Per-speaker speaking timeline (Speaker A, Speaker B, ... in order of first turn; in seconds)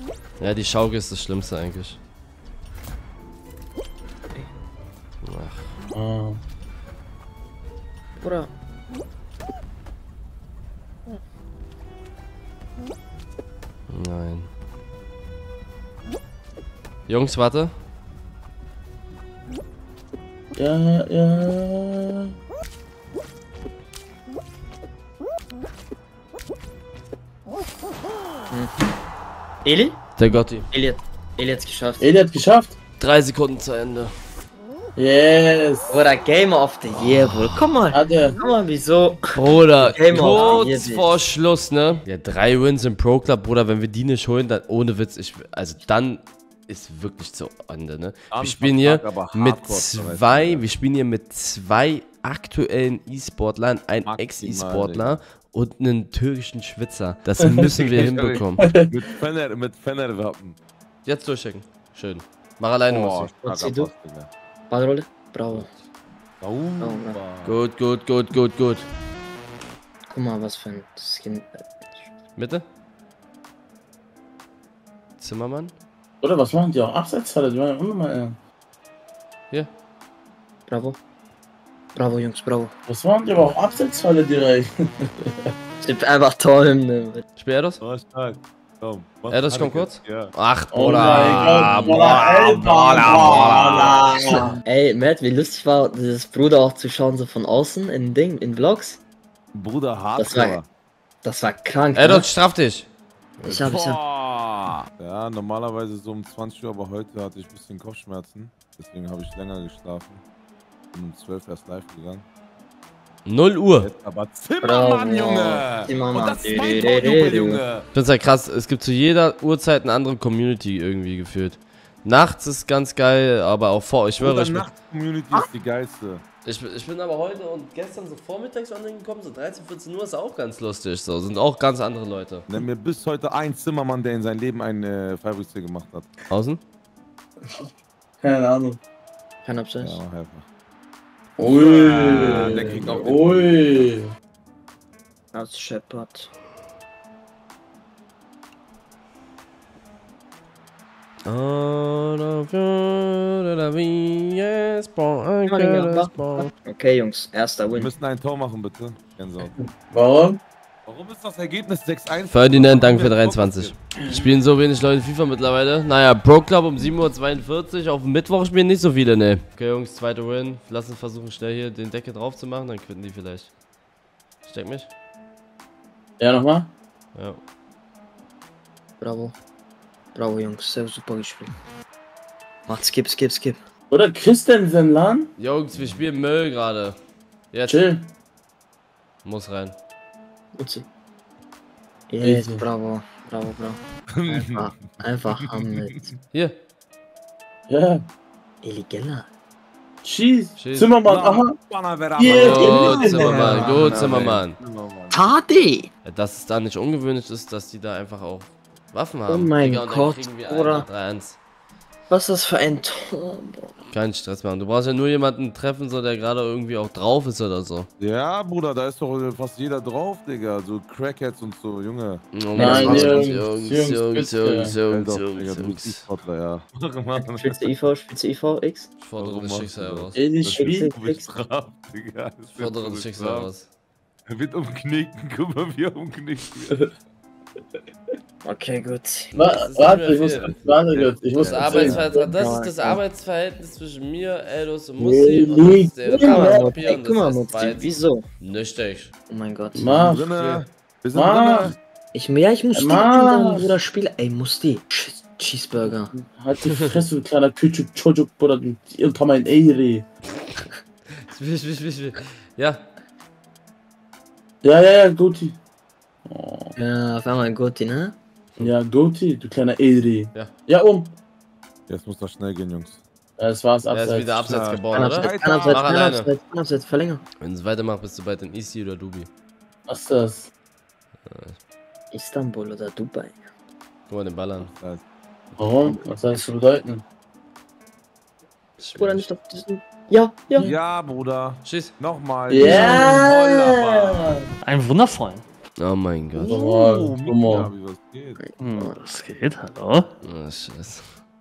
Speaker A: 0.4-2.0, 5.2-5.7, 13.9-14.5, 17.1-17.7, 30.2-30.7, 33.0-34.1, 39.4-58.7, 61.0-63.3, 67.4-68.8, 72.4-72.7, 75.2-75.7, 87.4-87.8, 89.3-93.9, 102.0-102.9, 113.3-113.9, 117.9-124.7, 126.5-132.4, 136.3-136.6, 151.2-156.5, 162.3-173.5, 174.4-174.9, 177.2-177.4, 185.4-187.0, 187.5-187.8, 189.2-189.7, 200.6-201.0, 202.2-204.6, 206.1-211.4, 213.9-217.9, 222.3-226.0, 229.0-230.2, 232.6-233.7, 239.3-247.9, 248.4-249.1, 261.3-262.8, 273.9-276.3, 277.4-279.3, 281.3-281.6, 284.1-284.7, 288.8-289.3, 291.6-291.9, 295.8-296.5, 300.2-301.1
Speaker B: 5.9-6.4, 20.6-22.3, 32.0-32.8, 35.0-35.9, 37.9-38.4, 57.4-57.7, 58.5-59.1, 76.2-78.4, 82.9-85.5, 90.7-94.6, 138.2-138.8, 141.4-144.1, 159.4-160.4, 176.2-176.7, 183.9-185.3, 187.7-188.1, 192.2-192.6, 197.7-198.0, 200.0-201.6, 202.2-204.1, 222.5-224.8, 230.1-230.9, 239.3-242.4, 245.0-246.8, 249.8-250.4, 251.1-251.8, 252.7-253.8, 256.1-260.1, 264.6-265.6, 266.2-266.7, 268.6-271.1, 273.4-274.6, 279.9-280.5, 285.6-287.0, 292.5-294.4, 296.4-297.7
Speaker C: 8.2-8.5, 29.6-30.0, 30.7-32.1, 35.9-41.2, 63.4-63.9, 64.7-65.7, 66.8-67.2, 70.1-72.1, 80.7-81.0, 82.0-82.7, 85.8-87.2, 94.2-99.0, 100.2-100.6, 101.2-102.3, 103.4-104.0, 114.6-117.6, 139.4-140.0, 142.4-143.1, 145.3-146.3, 155.5-157.9, 179.0-179.3, 180.2-181.5, 182.7-183.6, 190.6-190.8, 192.1-196.0, 198.6-199.3, 205.1-205.9, 209.3-210.9, 212.1-213.8, 227.2-228.9, 230.5-231.3, 238.4-239.3, 242.2-243.0, 246.2-248.2, 249.3-250.1, 252.1-256.1, 266.8-268.1, 274.9-277.2, 282.1-283.4, 289.0-290.7, 298.4-299.0
Speaker D: 40.2-40.6, 48.3-50.7, 54.1-55.2, 57.8-60.6, 62.9-64.3, 66.4-67.6, 87.8-90.3, 91.3-92.5, 99.5-100.7, 103.5-110.2, 110.9-112.2, 113.8-117.8, 124.2-126.2, 132.5-136.1, 139.8-140.4, 141.4-143.9, 157.7-159.6, 160.9-163.8, 185.7-186.1, 194.1-196.1, 201.1-205.2, 218.0-223.3, 224.9-227.7, 229.2-233.5, 234.3-236.7, 241.4-242.1, 250.1-251.8, 271.9-273.0, 274.5-275.9, 284.6-285.0, 290.6-294.3, 296.5-298.4
Speaker E: 292.6-293.2, 294.6-295.4, 298.6-300.1